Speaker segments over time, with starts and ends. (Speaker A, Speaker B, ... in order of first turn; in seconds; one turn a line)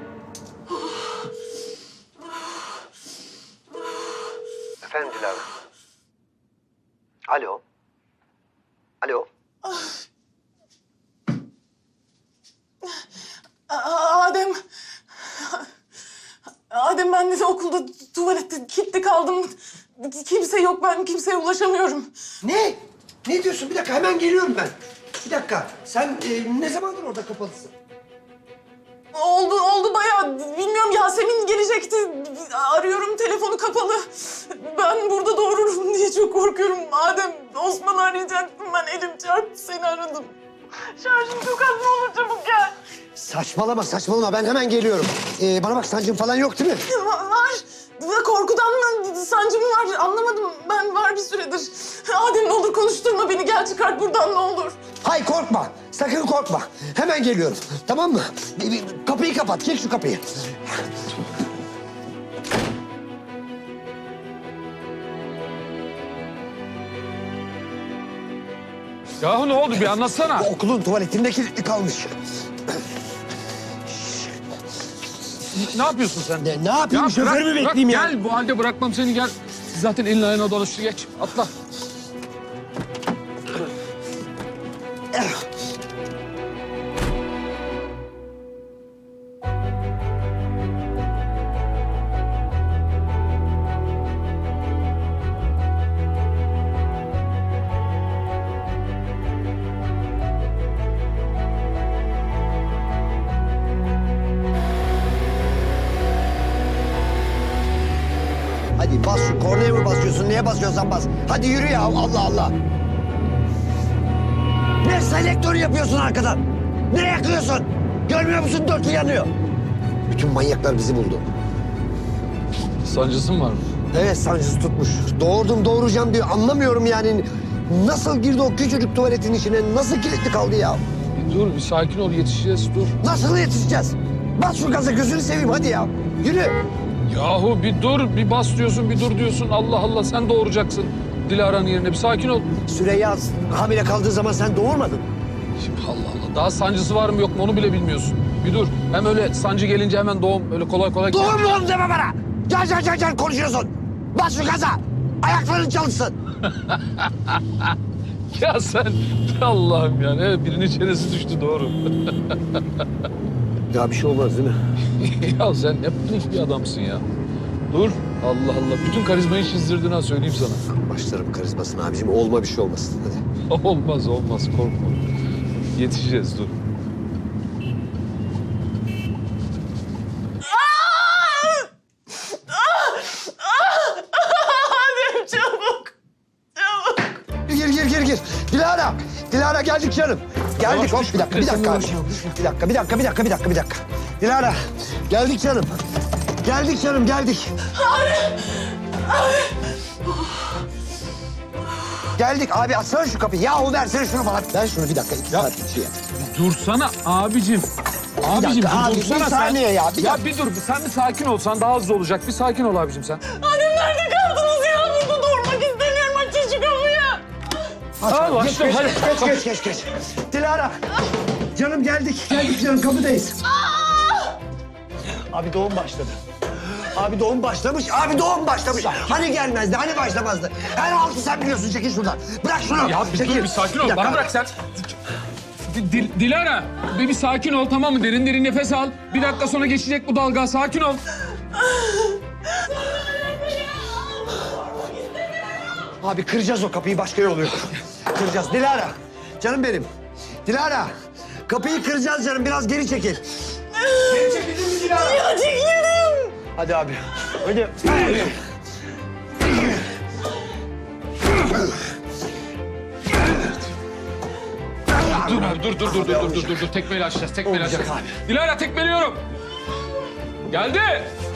Speaker A: 4.8-5.5
Speaker A: 7.3-7.6
Speaker A: 9.0-9.3
Speaker B: 13.7-14.6
Speaker B: 15.2-15.7
Speaker B: 16.7-22.1
Speaker A: 22.4-27.7
Speaker B: 29.1-40.3
Speaker B: 40.9-42.8
Speaker A: 43.1-46.8
Speaker B: 46.9-54.8
Speaker A: 55.0-61.1
Speaker C: 69.2-70.5
Speaker A: 69.8-72.8
Speaker A: 73.9-74.4
Speaker C: 75.5-81.5
Speaker A: 76.4-78.1
Speaker A: 85.1-85.5
Speaker A: 108.8-112.5
Speaker A: 114.8-119.3
Speaker A: 120.1-121.3
Speaker C: 122.8-123.7
Speaker A: 123.9-130.8
Speaker C: 131.1-132.9
Speaker A: 133.0-136.6
Speaker C: 137.1-142.6
Speaker A: 142.7-145.1
Speaker C: 145.6-151.4
Speaker A: 151.1-156.1
Speaker C: 156.4-157.8
Speaker C: 158.3-162.9
Speaker A: 163.7-164.6
Speaker C: 164.9-167.1
Speaker C: 167.7-170.6
Speaker A: 170.7-173.2
Speaker C: 173.5-175.0
Speaker C: 175.7-176.6
Speaker B: 180.4-181.7
Speaker B: 182.2-185.9
Speaker B: 186.6-187.2
Speaker A: 187.4-195.8
Speaker C: 190.6-192.2
Speaker A: 196.4-197.5
Speaker B: 197.7-199.6
Speaker A: 202.2-206.0
Speaker C: 206.2-207.7
Speaker C: 208.2-213.2
Speaker A: 208.2-210.2
Speaker B: 213.3-217.2
Speaker A: 218.0-220.8
Speaker C: 218.0-219.4
Speaker A: 221.5-223.4
Speaker C: 222.3-222.6
Speaker B: 223.6-224.3
Speaker A: 225.3-234.3
Speaker C: 232.8-234.6
Speaker C: 235.7-241.0
Speaker B: 241.8-242.1
Speaker A: 246.0-249.9
Speaker A: 250.4-250.9
Speaker A: 251.5-253.3
Speaker B: 253.7-256.4
Speaker A: 256.5-258.4
Speaker A: 259.4-259.9
Speaker A: 261.3-261.8
Speaker A: 264.9-266.7
Speaker C: 265.0-269.2
Speaker A: 267.4-268.1
Speaker C: 270.5-271.1